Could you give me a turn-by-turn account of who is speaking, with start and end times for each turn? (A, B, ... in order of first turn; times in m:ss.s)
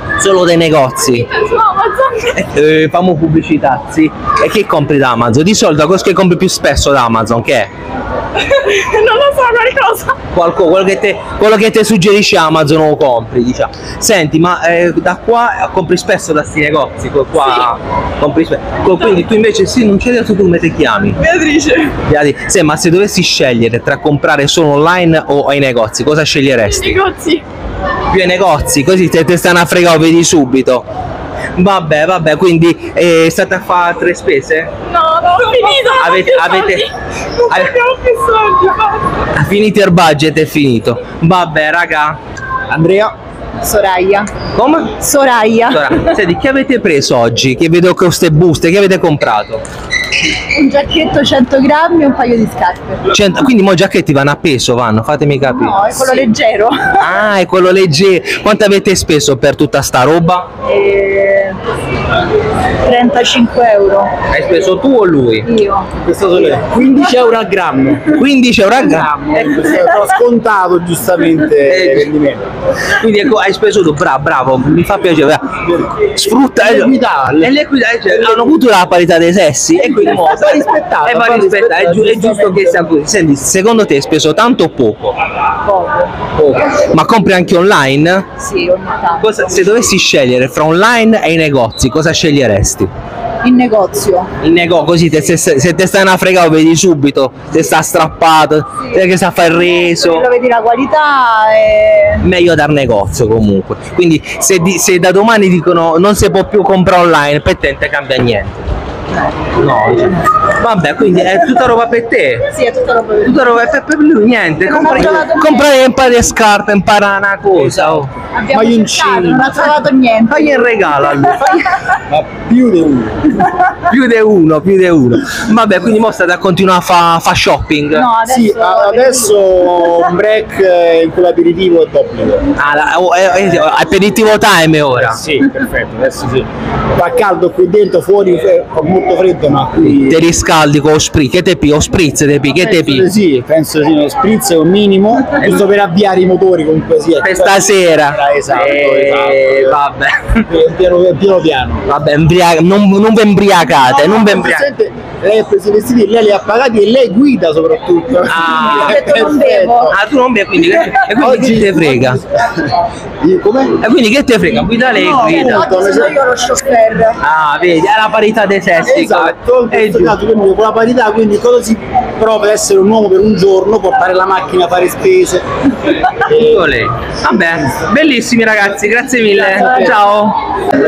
0:00.2-0:01.3 A
0:01.2-0:02.3 B
0:02.4-0:07.7 A
0:08.4-0:10.2 B
0:10.3-0:21.2 A
0:17.4-0:17.7 B
0:21.2-0:21.9 B
0:22.0-0:27.0 A
0:26.6-0:27.4 B
0:28.1-0:30.8 A
0:31.6-0:34.7 A
0:34.8-0:36.9 B
0:35.9-0:36.9 A
0:37.4-0:39.1 B
0:37.5-0:37.7 A
0:39.4-0:42.2 A
0:42.7-0:43.1 C
0:43.6-0:44.3 D
0:44.5-0:44.9 A
0:45.0-0:46.0 D
0:45.7-0:49.6 A
0:50.5-0:53.0 D
0:53.1-0:56.1 A
0:55.4-0:57.0 D
0:57.0-1:00.5 A
1:00.6-1:01.6 D
1:02.8-1:04.1 D
1:04.3-1:05.5 A
1:05.4-1:05.9 D
1:06.0-1:08.2 C
1:08.2-1:09.7 A
1:08.8-1:12.4 C
1:11.7-1:12.1 A
1:13.0-1:25.1 A
1:16.6-1:17.5 C
1:18.1-1:18.5 C
1:19.9-1:22.7 C
1:25.6-1:26.1 D
1:26.4-1:28.2 A
1:28.4-1:29.3 D
1:29.2-1:32.9 A
1:33.4-1:34.3 D
1:34.4-1:40.2 A
1:39.6-1:42.2 D
1:42.2-1:48.6 A
1:49.5-1:52.5 A
1:52.5-1:53.4 D
1:53.2-1:58.1 A
1:54.6-1:55.7 D
1:57.6-1:58.0 C
1:58.3-2:01.5 D
1:58.5-1:59.8 C
2:00.2-2:01.7 A
2:02.1-2:03.5 C
2:03.9-2:08.1 A
2:07.9-2:09.3 D
2:08.2-2:12.5 C
2:12.6-2:15.2 A
2:15.0-2:20.2 C
2:20.0-2:23.0 A
2:22.5-2:29.8 C
2:27.2-2:30.3 A
2:30.5-2:31.8 C
2:31.9-2:34.6 A
2:33.8-2:39.9 C
2:38.3-2:38.9 A
2:38.4-2:40.0 D
2:39.9-2:42.2 A
2:41.0-2:42.7 C
2:43.2-2:43.8 C
2:43.8-2:45.7 A
2:44.9-2:46.2 C
2:45.0-2:47.2 D
2:47.2-2:50.1 A
2:48.8-2:55.4 C
2:56.1-2:56.7 C
2:56.4-3:00.4 A